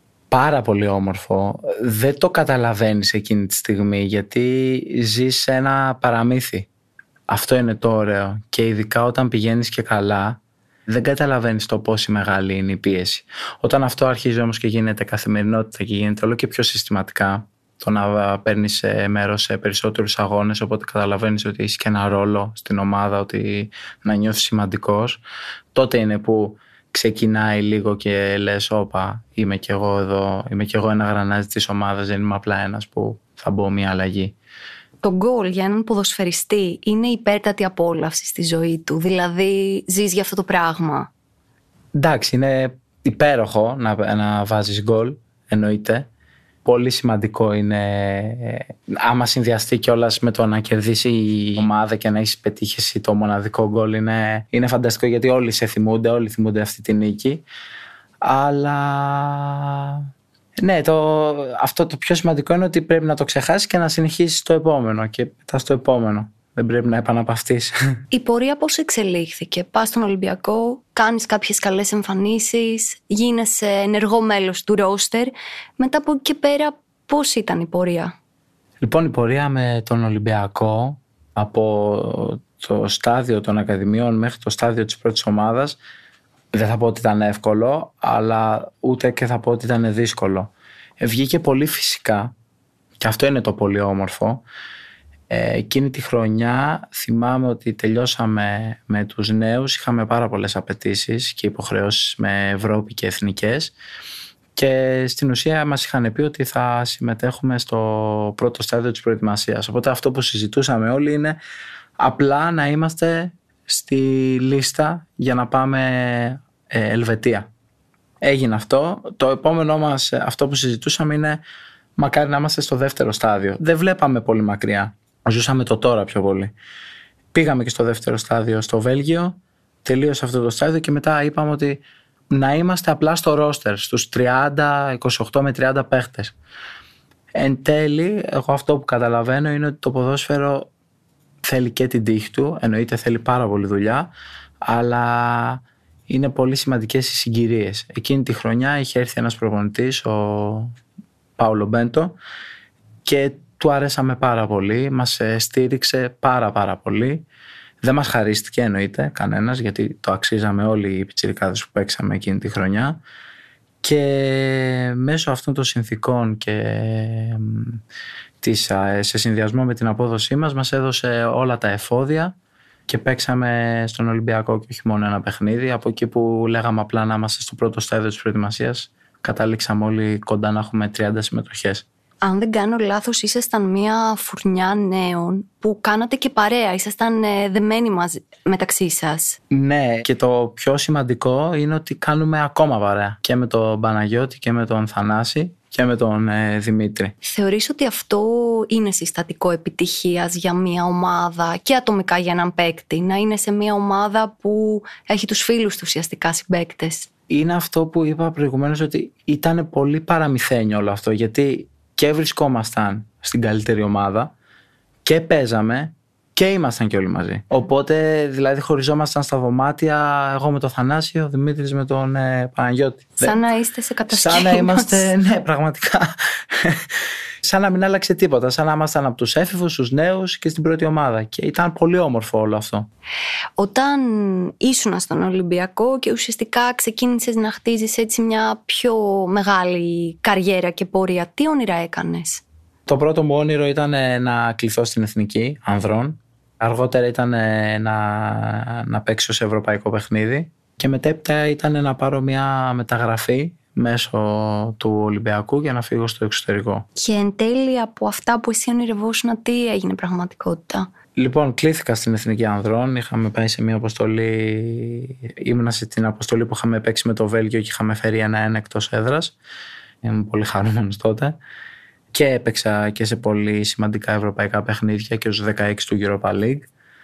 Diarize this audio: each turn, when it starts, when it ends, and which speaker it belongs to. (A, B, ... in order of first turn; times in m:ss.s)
0:00.3-0:06.7 A
0:07.3-0:25.2 A
0:25.7-0:34.4 A
0:35.0-0:41.1 B
0:41.9-0:46.1 A
0:46.6-0:57.4 A
0:58.2-1:00.1 A
1:00.6-1:07.8 A
1:08.1-1:18.1 B
1:18.8-1:25.8 A
1:26.5-1:32.3 A
1:33.0-1:34.4 A
1:35.3-1:43.8 A
1:44.6-1:51.4 A
1:52.0-1:57.5 A
1:58.2-2:01.4 A
2:02.0-2:06.5 A
2:07.3-2:16.4 A
2:17.3-2:20.7 A
2:21.4-2:24.1 A
2:24.6-2:30.7 A
2:31.4-2:32.2 A
2:33.0-2:37.3 A
2:37.8-2:43.0 A
2:43.8-2:47.8 A
2:48.4-2:52.3 A
2:52.9-3:01.9 A
3:02.2-3:09.4 B
3:09.5-3:17.2 A
3:17.2-3:27.1 B
3:27.3-3:34.3 A
3:35.0-3:43.4 A
3:43.2-3:45.1 B
3:44.1-3:52.9 A
3:53.6-4:02.4 B
4:02.9-4:16.9 A
4:17.0-4:20.9 B
4:21.2-4:29.4 A
4:30.0-4:31.4 A
4:32.1-4:36.7 A